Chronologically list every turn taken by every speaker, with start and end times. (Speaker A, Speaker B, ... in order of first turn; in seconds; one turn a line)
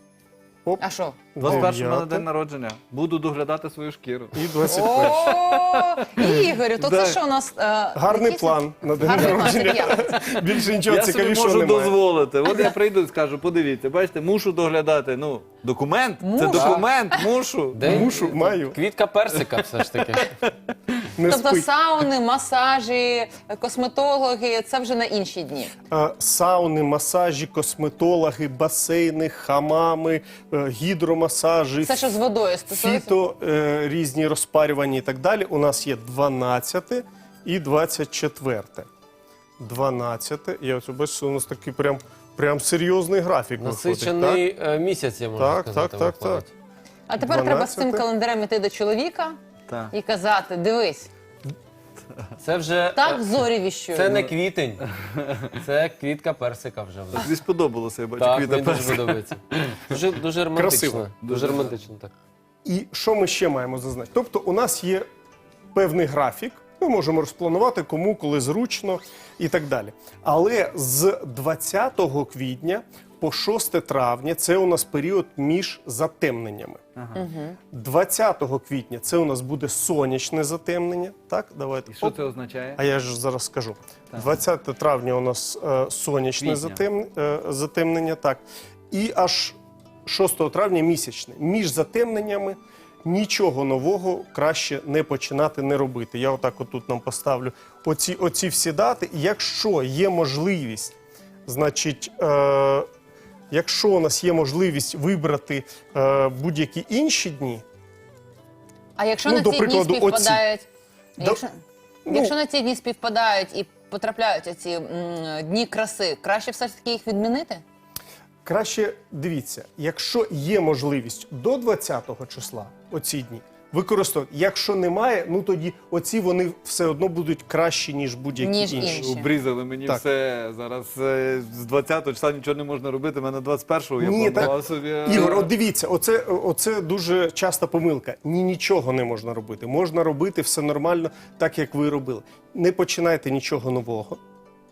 Speaker A: 0.8-1.3
Speaker B: 1.4-2.2
Speaker C: 1.4-7.2
Speaker B: 4.3-5.3
Speaker A: 4.7-10.2
Speaker B: 8.0-12.0
Speaker C: 10.8-18.2
Speaker A: 16.2-17.2
Speaker D: 16.5-16.8
Speaker D: 17.7-20.3
Speaker B: 17.8-18.8
Speaker C: 19.8-20.4
Speaker B: 21.1-21.7
Speaker A: 21.3-25.8
Speaker B: 25.9-32.2
Speaker A: 31.8-33.1
Speaker B: 32.7-38.9
Speaker B: 39.6-44.4
Speaker D: 43.6-46.5
Speaker B: 45.4-46.4
Speaker A: 47.1-49.4
Speaker B: 47.2-48.0
Speaker C: 49.7-49.9
Speaker A: 49.9-51.1
Speaker D: 52.4-53.3
Speaker A: 52.9-54.2
Speaker D: 53.9-54.9
Speaker D: 55.5-57.3
Speaker C: 57.1-59.9
Speaker D: 58.2-62.1
Speaker B: 60.5-61.1
Speaker C: 61.2-61.8
Speaker B: 62.6-65.1
Speaker B: 65.7-76.8
Speaker C: 77.0-77.2
Speaker A: 77.2-77.6
Speaker B: 77.7-82.2
Speaker C: 81.9-82.8
Speaker B: 82.7-100.9
Speaker C: 86.4-86.8
Speaker B: 101.5-102.9
Speaker B: 103.5-107.6
Speaker A: 109.0-110.7
Speaker B: 109.2-110.4
Speaker A: 111.2-117.6
Speaker B: 112.1-112.3
Speaker B: 118.4-129.1
Speaker A: 128.4-129.3
Speaker C: 128.9-135.5
Speaker B: 134.0-144.2